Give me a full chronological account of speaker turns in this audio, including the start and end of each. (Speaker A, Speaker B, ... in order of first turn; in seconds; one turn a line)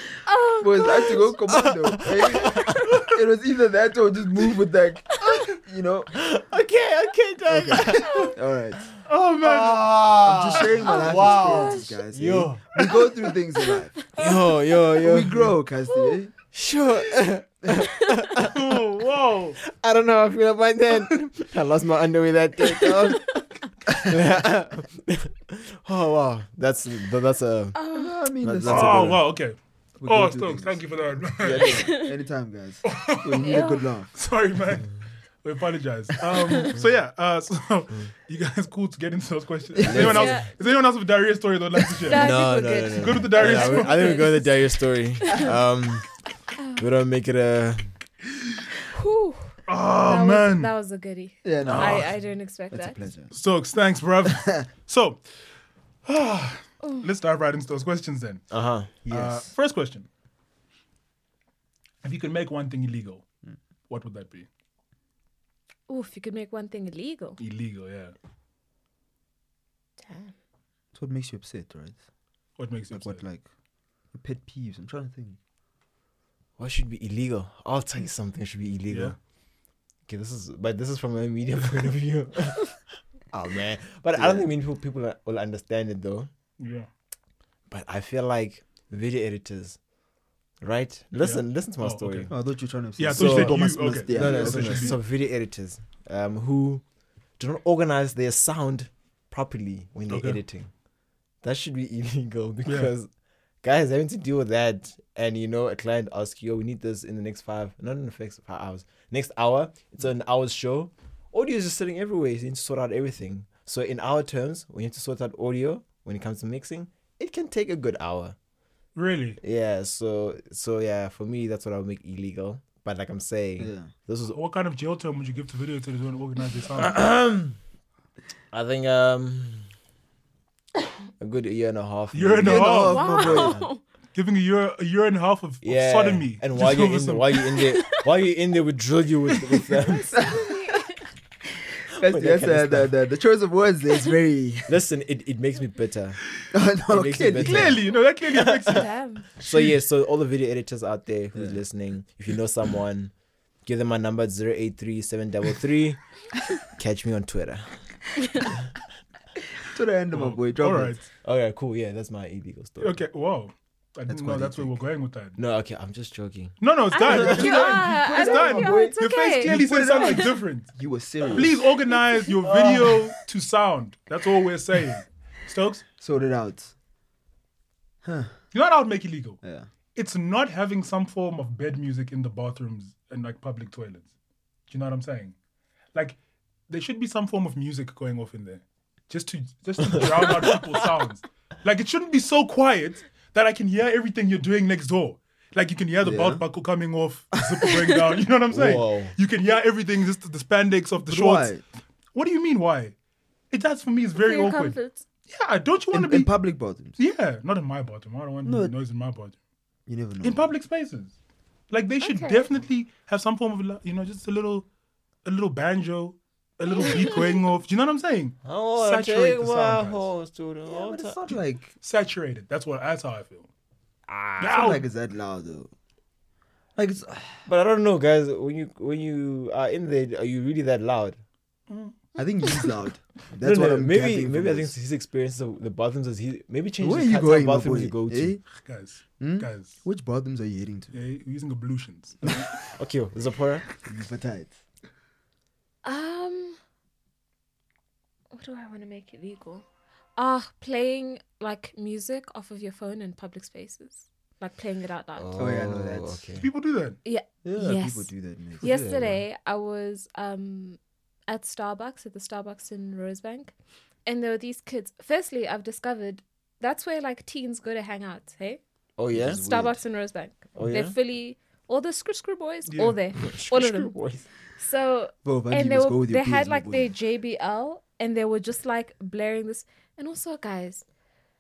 Speaker A: 0.2-1.3
Speaker B: 0.6-6.1
Speaker C: 1.5-3.0
Speaker C: 6.1-8.3
Speaker B: 7.5-8.8
Speaker D: 9.1-10.1
Speaker C: 9.4-13.0
Speaker B: 10.2-14.1
Speaker A: 10.8-11.9
Speaker C: 14.2-15.5
Speaker B: 15.0-16.3
Speaker A: 15.9-16.2
Speaker C: 16.5-27.8
Speaker D: 18.4-19.6
Speaker B: 22.6-24.2
Speaker A: 27.8-28.2
Speaker B: 27.9-29.3
Speaker C: 28.4-29.2
Speaker D: 28.6-31.9
Speaker B: 30.0-30.8
Speaker B: 31.4-34.1
Speaker A: 31.6-32.1
Speaker D: 32.8-42.4
Speaker A: 33.4-33.8
Speaker B: 39.8-40.4
Speaker A: 39.9-40.5
Speaker A: 42.0-45.5
Speaker C: 42.1-46.1
Speaker D: 42.9-44.2
Speaker A: 46.6-46.8
Speaker C: 46.8-47.9
Speaker A: 48.9-53.0
Speaker D: 49.7-50.7
Speaker B: 51.4-52.2
Speaker D: 51.7-52.1
Speaker B: 52.7-53.3
Speaker D: 53.3-55.2
Speaker B: 54.3-54.7
Speaker D: 56.1-58.5
Speaker A: 56.8-57.1
Speaker C: 58.5-58.9
Speaker B: 59.0-59.5
Speaker D: 59.0-60.1
Speaker D: 62.0-63.2
Speaker D: 63.9-64.5
Speaker A: 65.9-67.4
Speaker D: 67.4-68.1
Speaker A: 70.0-70.3
Speaker B: 70.9-72.0
Speaker D: 72.6-73.2
Speaker B: 72.9-73.5
Speaker B: 74.1-75.4
Speaker C: 76.6-79.2
Speaker D: 78.9-79.2
Speaker C: 80.1-86.3
Speaker B: 84.2-84.5
Speaker D: 86.6-86.9
Speaker C: 87.7-89.8
Speaker C: 90.6-92.3
Speaker D: 91.2-92.3
Speaker B: 92.3-95.0
Speaker D: 93.0-95.0
Speaker C: 93.1-96.8
Speaker C: 97.4-100.7
Speaker D: 100.1-100.4
Speaker C: 101.4-103.1
Speaker D: 102.7-102.9
Speaker C: 103.6-118.4
Speaker D: 119.0-119.4
Speaker C: 119.4-124.4
Speaker B: 123.6-123.9
Speaker D: 124.3-127.0
Speaker C: 126.7-127.6
Speaker C: 128.5-129.7
Speaker C: 131.2-133.6
Speaker D: 132.1-133.4
Speaker B: 132.4-133.7
Speaker A: 132.7-133.8
Speaker D: 134.1-137.6
Speaker C: 135.6-140.2
Speaker A: 137.6-138.0
Speaker A: 139.8-141.0
Speaker B: 140.1-140.6
Speaker B: 141.8-144.8
Speaker C: 142.0-142.9
Speaker C: 144.7-146.2
Speaker B: 146.5-147.8
Speaker C: 146.9-148.8
Speaker D: 147.4-148.9
Speaker A: 148.7-149.3
Speaker C: 149.4-153.1
Speaker B: 151.3-151.6
Speaker C: 153.7-156.0
Speaker C: 156.6-157.7
Speaker B: 159.7-160.9
Speaker D: 160.1-161.1
Speaker C: 161.2-163.0
Speaker D: 162.8-165.4
Speaker B: 164.1-164.8
Speaker C: 165.4-166.6
Speaker D: 166.6-170.7
Speaker A: 166.9-170.3
Speaker B: 167.1-171.7
Speaker D: 171.3-175.8
Speaker B: 176.0-176.7
Speaker B: 178.0-178.4
Speaker D: 178.5-179.4
Speaker B: 179.4-179.7
Speaker D: 179.9-184.1
Speaker D: 184.7-185.3
Speaker D: 186.7-201.5
Speaker B: 196.0-196.4
Speaker C: 198.5-199.2
Speaker B: 201.1-201.6
Speaker D: 202.1-202.9
Speaker D: 203.5-204.8
Speaker A: 204.2-205.0
Speaker D: 205.3-206.3
Speaker B: 205.9-207.0
Speaker D: 207.0-209.4
Speaker B: 208.4-208.7
Speaker B: 209.9-210.5
Speaker D: 210.2-211.1
Speaker D: 211.7-214.7
Speaker A: 212.0-212.5
Speaker D: 215.2-220.1
Speaker A: 216.8-217.3
Speaker C: 218.4-221.3
Speaker B: 220.7-221.7
Speaker D: 221.8-223.5
Speaker C: 224.1-224.6
Speaker D: 224.4-224.9
Speaker B: 224.5-225.7
Speaker B: 226.8-227.5
Speaker C: 227.5-231.2
Speaker D: 231.7-232.0
Speaker B: 232.2-234.7
Speaker C: 233.4-238.4
Speaker B: 236.8-238.4
Speaker D: 238.6-239.8
Speaker B: 239.2-241.0
Speaker D: 240.9-242.6
Speaker C: 242.7-243.7
Speaker B: 243.8-244.6
Speaker A: 245.8-246.6
Speaker A: 248.3-249.7
Speaker A: 250.2-255.3
Speaker C: 255.2-256.5
Speaker B: 255.4-256.3
Speaker D: 256.4-257.0
Speaker A: 257.0-263.5
Speaker B: 257.4-258.8
Speaker C: 258.6-259.2
Speaker A: 264.1-268.6
Speaker C: 269.0-269.4
Speaker B: 269.1-269.8
Speaker A: 269.2-273.9
Speaker C: 270.6-270.9
Speaker D: 272.7-273.0
Speaker C: 273.2-274.3
Speaker A: 274.6-280.9
Speaker B: 275.2-276.9